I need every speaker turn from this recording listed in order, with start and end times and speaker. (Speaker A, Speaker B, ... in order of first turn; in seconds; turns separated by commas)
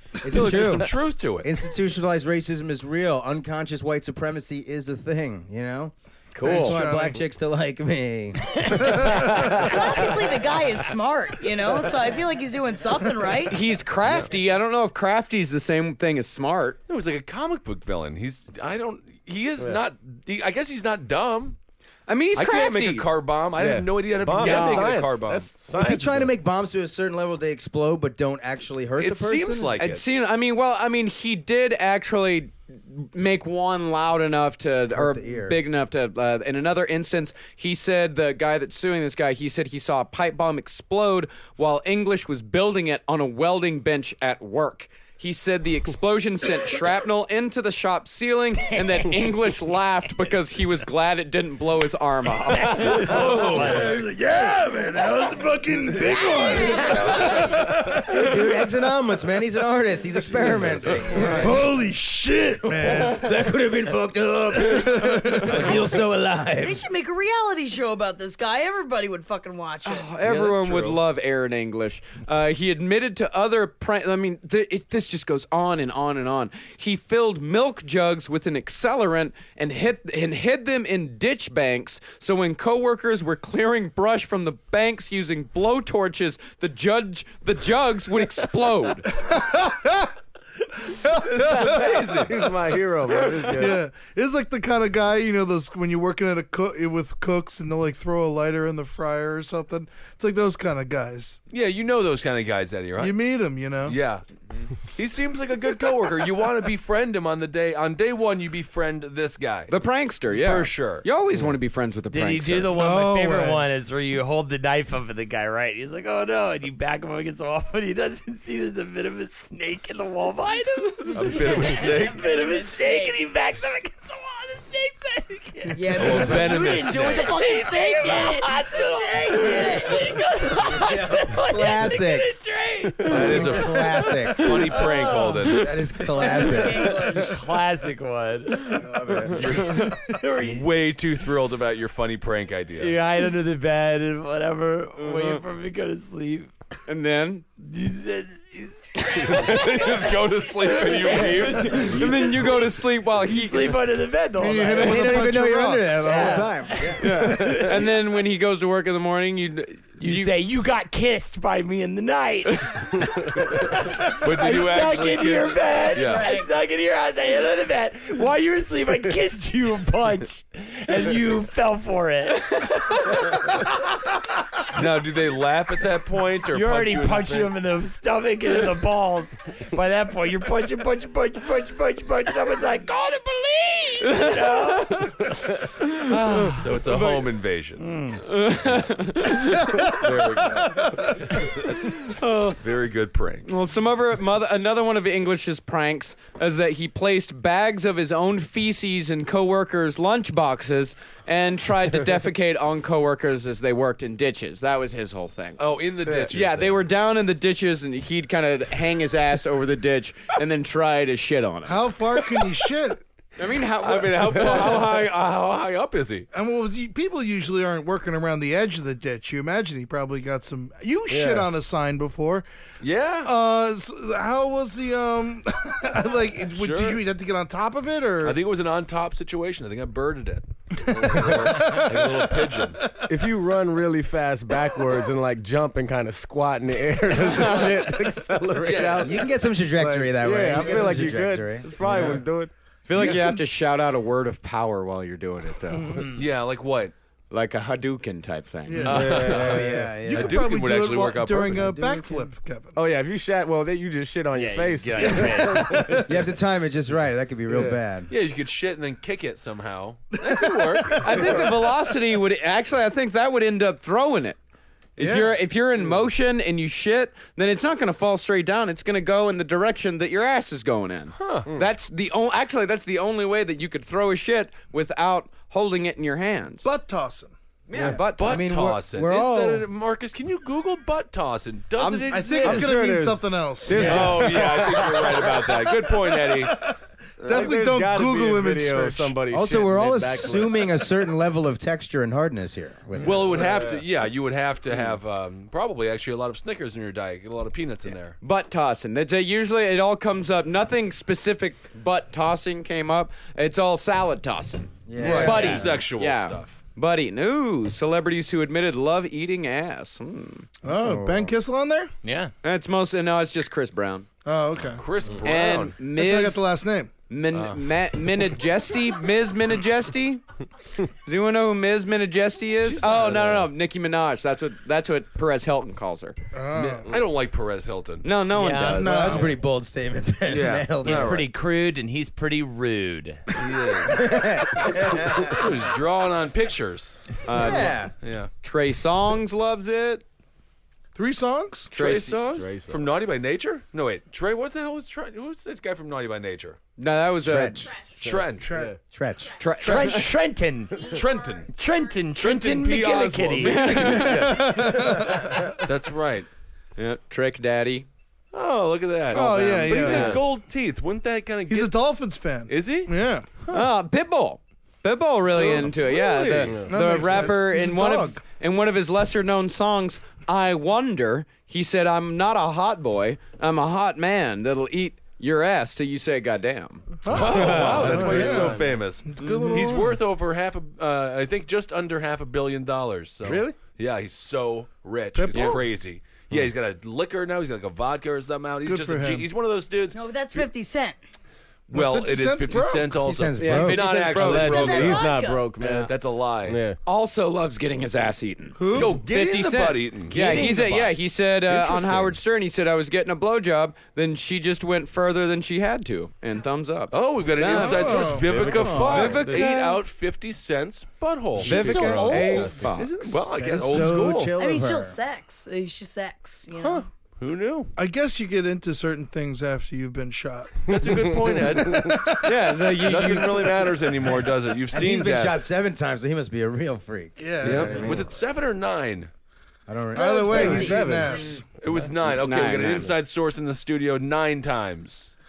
Speaker A: 0.2-9.1, Speaker B: 0.3-1.5, Speaker C: 6.3-6.8, Speaker D: 6.4-7.2, Speaker D: 8.8-9.5, Speaker E: 9.3-13.6, Speaker C: 13.5-16.8, Speaker B: 14.1-14.3, Speaker B: 16.9-21.6, Speaker C: 22.1-23.1, Speaker B: 22.3-25.6, Speaker F: 23.6-26.3, Speaker C: 24.4-24.9, Speaker A: 25.7-29.8, Speaker B: 29.0-30.1, Speaker C: 29.8-53.1, Speaker A: 34.9-35.6, Speaker G: 52.6-54.0, Speaker B: 53.0-54.0, Speaker D: 53.6-58.5, Speaker A: 56.5-57.5, Speaker A: 58.1-61.6, Speaker B: 60.4-61.6, Speaker D: 61.4-63.3, Speaker A: 62.6-66.8, Speaker D: 64.7-65.6, Speaker E: 66.6-70.1, Speaker C: 69.8-89.1, Speaker B: 70.2-71.0, Speaker D: 89.1-90.1, Speaker D: 90.9-92.1, Speaker B: 91.2-92.5, Speaker F: 91.7-93.8, Speaker D: 93.5-101.4, Speaker B: 101.5-103.2, Speaker D: 103.0-104.0, Speaker B: 103.8-104.2, Speaker B: 104.9-109.7, Speaker C: 109.7-112.8, Speaker B: 110.3-111.1, Speaker G: 112.1-133.8, Speaker D: 112.7-113.7, Speaker B: 121.1-122.2, Speaker E: 121.5-123.2, Speaker E: 125.7-131.0, Speaker B: 125.9-127.3, Speaker A: 130.7-132.3, Speaker B: 133.1-135.8, Speaker A: 133.1-134.5, Speaker G: 134.7-135.3, Speaker A: 135.4-137.1, Speaker E: 136.2-137.4, Speaker G: 137.1-138.9, Speaker A: 138.7-139.6, Speaker B: 139.3-142.9, Speaker G: 139.8-140.7, Speaker G: 142.8-146.5, Speaker C: 146.9-147.4, Speaker G: 147.6-149.7, Speaker B: 149.2-152.0, Speaker G: 150.8-152.7, Speaker C: 151.2-153.8, Speaker G: 153.2-155.3, Speaker D: 154.4-156.4, Speaker A: 154.8-157.3, Speaker G: 156.0-157.8, Speaker C: 157.0-160.3, Speaker G: 160.0-163.0, Speaker G: 163.5-173.1, Speaker B: 164.2-166.3, Speaker E: 165.9-166.5, Speaker B: 174.7-177.5, Speaker G: 176.5-185.3, Speaker C: 184.1-185.1, Speaker G: 186.1-187.1, Speaker B: 186.4-187.9, Speaker G: 187.8-188.2, Speaker C: 188.3-189.8, Speaker D: 189.8-190.1, Speaker B: 190.0-191.5, Speaker C: 192.1-192.6, Speaker B: 192.6-193.5, Speaker C: 193.4-211.8, Speaker B: 205.6-206.8, Speaker D: 211.7-213.0, Speaker B: 212.2-212.7, Speaker C: 213.4-215.2, Speaker B: 213.8-216.3, Speaker D: 216.3-222.5, Speaker F: 221.1-221.5, Speaker B: 222.8-223.3, Speaker D: 223.2-228.4, Speaker B: 226.5-227.0, Speaker B: 228.2-232.8, Speaker D: 231.0-232.6, Speaker F: 233.1-239.2, Speaker C: 237.2-237.9, Speaker B: 238.6-239.1, Speaker A: 239.0-241.7, Speaker F: 239.8-242.5, Speaker D: 241.8-242.2, Speaker C: 242.9-246.0, Speaker D: 243.0-243.3, Speaker D: 245.8-246.1, Speaker B: 246.1-246.9, Speaker C: 247.3-249.3, Speaker D: 248.7-249.2, Speaker F: 248.8-250.0, Speaker B: 248.9-251.6, Speaker A: 249.2-250.4, Speaker D: 250.1-252.8, Speaker A: 251.5-252.3, Speaker F: 252.8-255.8, Speaker G: 254.3-255.9, Speaker B: 254.9-255.5, Speaker D: 255.4-256.1, Speaker A: 256.1-258.1, Speaker F: 257.5-257.8, Speaker B: 258.1-261.5, Speaker D: 260.2-261.4, Speaker C: 261.0-264.4, Speaker C: 265.0-276.7, Speaker D: 265.0-265.3, Speaker B: 271.1-271.5, Speaker D: 276.6-277.3, Speaker C: 277.7-278.5, Speaker B: 277.8-282.8, Speaker A: 277.9-279.7, Speaker C: 281.8-282.6, Speaker D: 282.1-289.2, Speaker F: 282.4-284.6, Speaker B: 283.7-286.6, Speaker F: 287.2-290.8, Speaker A: 289.3-293.5, Speaker B: 293.0-298.2, Speaker F: 293.0-293.9, Speaker C: 298.2-310.5, Speaker A: 304.9-305.6, Speaker B: 305.0-306.6, Speaker G: 305.0-305.6, Speaker D: 305.0-305.3, Speaker D: 310.6-311.9, Speaker A: 310.8-311.3, Speaker G: 312.0-312.3, Speaker C: 312.4-314.1, Speaker D: 314.2-314.8, Speaker B: 314.6-315.9, Speaker C: 315.2-316.4, Speaker D: 315.9-316.9, Speaker C: 317.1-320.2, Speaker B: 317.3-317.6, Speaker C: 321.1-326.2, Speaker B: 322.6-323.5, Speaker D: 326.3-326.9, Speaker B: 326.6-328.1, Speaker C: 328.0-329.3, Speaker G: 328.4-329.0, Speaker D: 328.8-329.3, Speaker A: 328.8-331.2, Speaker B: 330.3-331.3, Speaker G: 330.8-333.2, Speaker B: 333.3-334.1, Speaker A: 333.9-335.4, Speaker B: 335.1-338.3, Speaker C: 337.2-337.9, Speaker A: 337.4-337.9, Speaker C: 338.4-340.0, Speaker D: 340.9-341.7, Speaker C: 341.7-342.2, Speaker B: 341.7-346.6, Speaker F: 342.3-342.9, Speaker C: 346.8-347.7, Speaker A: 347.2-347.7, Speaker B: 348.0-348.6, Speaker F: 348.0-348.8, Speaker D: 348.4-348.8, Speaker A: 348.8-349.4, Speaker C: 349.4-350.1, Speaker G: 349.6-350.9, Speaker B: 350.8-351.5, Speaker G: 351.5-353.9, Speaker B: 352.2-356.3, Speaker C: 353.4-354.6, Speaker D: 354.2-355.1, Speaker C: 356.8-357.9, Speaker B: 358.3-361.8, Speaker D: 359.1-360.2, Speaker C: 359.1-360.2, Speaker D: 361.5-363.3, Speaker B: 362.5-363.7, Speaker C: 363.5-376.9, Speaker B: 365.3-366.7, Speaker F: 366.5-366.7, Speaker D: 366.6-368.2, Speaker D: 377.0-380.0, Speaker B: 377.1-390.5, Speaker F: 377.1-378.7, Speaker F: 383.2-383.6, Speaker D: 385.1-385.6, Speaker C: 385.3-385.6, Speaker D: 388.6-389.3, Speaker E: 389.9-391.0, Speaker B: 391.7-396.6, Speaker D: 391.7-393.0, Speaker A: 393.0-394.0, Speaker C: 393.4-394.8, Speaker F: 394.2-395.9, Speaker E: 394.3-395.5, Speaker F: 396.5-396.8, Speaker C: 396.9-408.2, Speaker D: 398.6-399.0, Speaker B: 398.7-400.9, Speaker B: 401.5-402.2, Speaker B: 406.9-414.4, Speaker D: 407.5-408.3, Speaker F: 408.2-409.5, Speaker A: 408.6-409.1, Speaker C: 408.8-409.8, Speaker C: 411.4-413.3, Speaker F: 411.4-412.7, Speaker E: 411.5-412.5, Speaker A: 413.4-415.0, Speaker E: 414.4-416.9, Speaker B: 416.6-417.7, Speaker D: 417.8-420.7, Speaker B: 420.7-425.4, Speaker D: 421.5-422.3, Speaker C: 422.2-423.8, Speaker A: 424.7-428.1, Speaker D: 427.2-427.9, Speaker B: 427.4-429.1, Speaker A: 429.7-431.2, Speaker D: 429.9-431.4, Speaker E: 430.4-431.3, Speaker B: 431.6-435.1, Speaker C: 432.0-432.9